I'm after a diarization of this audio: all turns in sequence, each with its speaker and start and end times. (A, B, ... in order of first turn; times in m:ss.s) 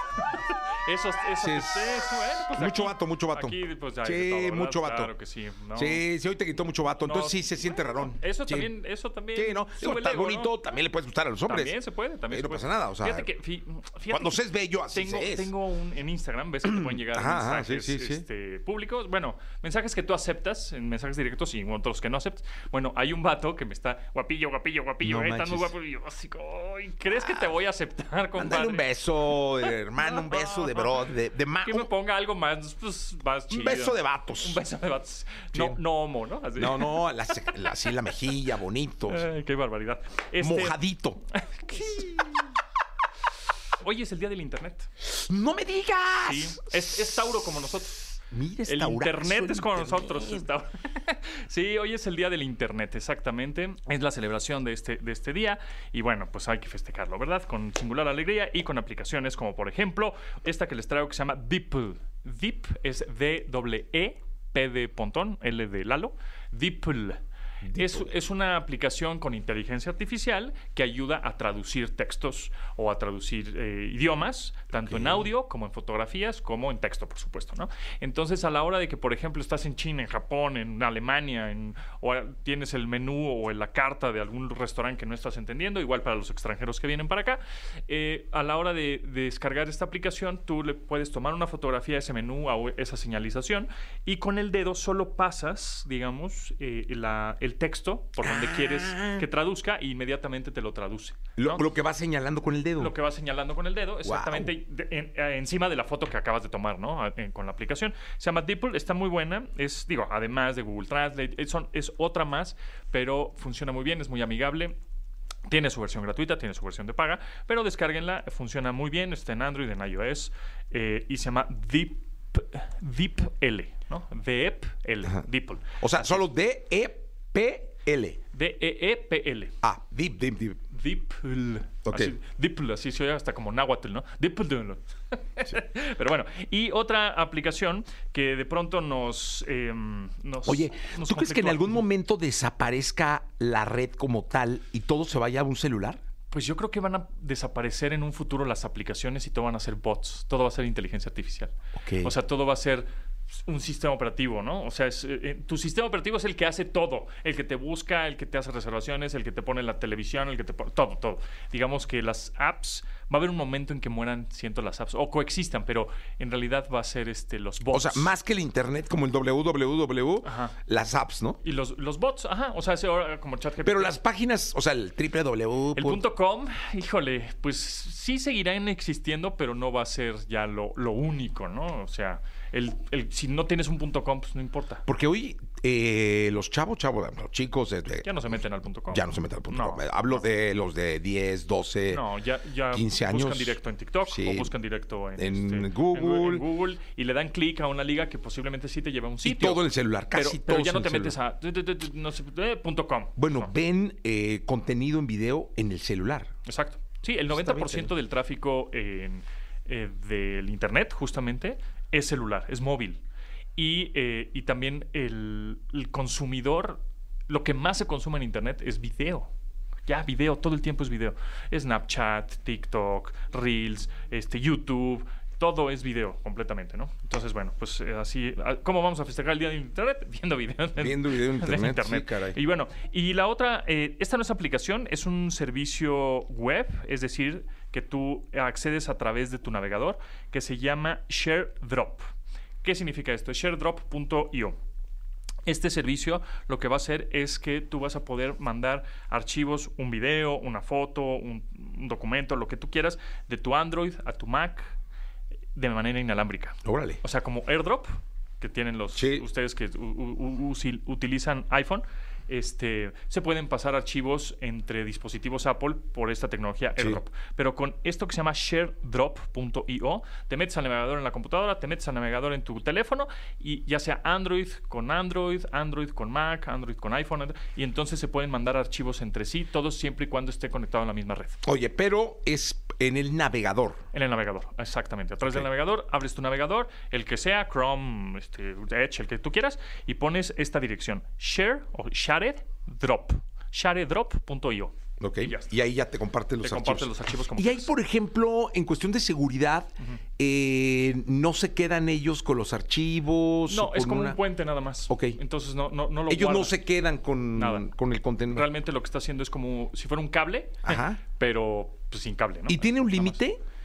0:00.2-0:06.0 A
0:01.4-0:05.1 B
0:05.7-0:08.7 B
0:07.0-0:10.5 A
0:09.3-0:11.8 B
0:11.4-0:14.4 A
0:12.3-0:13.3 B
0:14.1-0:15.5 B
0:14.9-0:28.9 A
0:16.7-0:18.2 B
0:25.0-0:25.7 B
0:27.1-0:27.5 B
0:28.4-0:31.9 B
0:29.6-0:31.0 A
0:31.6-0:37.6 A
0:33.5-0:34.6 B
0:35.5-0:35.8 B
0:36.6-0:39.3 B
0:39.1-0:40.8 A
0:40.4-0:41.2 B
0:41.3-0:42.4 A
0:43.7-0:44.9 A
0:45.0-0:47.0 B
0:46.2-1:07.2 A
0:48.3-0:50.5 B
1:07.6-1:08.1 B
1:07.7-1:41.6 A
1:14.7-1:15.3 B
1:38.2-1:39.3 B
1:41.4-1:42.9 B
1:42.8-1:54.8 A
1:44.0-1:44.5 B
1:55.5-2:06.2 A
2:05.8-2:08.2 B
2:08.3-2:09.5 A
2:09.6-2:10.6 B
2:10.7-2:21.8 A
2:11.8-2:12.1 B
2:20.4-2:26.0 B
2:26.3-2:48.1 A
2:31.8-2:32.1 B
2:47.7-2:51.4 B
2:50.2-2:50.6 A
2:51.4-2:54.0 A
2:53.6-2:56.0 B
2:55.7-3:04.8 A
3:04.9-3:08.1 B
3:08.0-3:10.2 A
3:08.9-3:12.0 B
3:11.9-3:23.5 A
3:12.7-3:14.6 B
3:15.2-3:16.4 B
3:19.2-3:21.2 B
3:23.2-3:26.3 B
3:26.4-3:33.0 A
3:27.3-3:27.9 B
3:33.6-3:39.3 A
3:39.9-4:02.1 A
3:50.8-3:52.4 B
4:02.6-4:04.6 A
4:05.4-4:14.7 A
4:15.5-4:17.9 A
4:16.6-4:17.0 B
4:18.4-4:41.4 A
4:19.0-4:19.2 B
4:26.8-4:27.0 B
4:41.4-4:43.8 B
4:43.9-4:55.5 A
4:55.0-5:04.2 B
4:56.4-4:57.7 A
5:03.5-5:06.5 A
5:04.9-5:05.2 B
5:06.1-5:08.5 B
5:07.4-5:07.7 A
5:08.3-5:13.2 A
5:10.6-5:11.0 B
5:12.5-5:13.4 B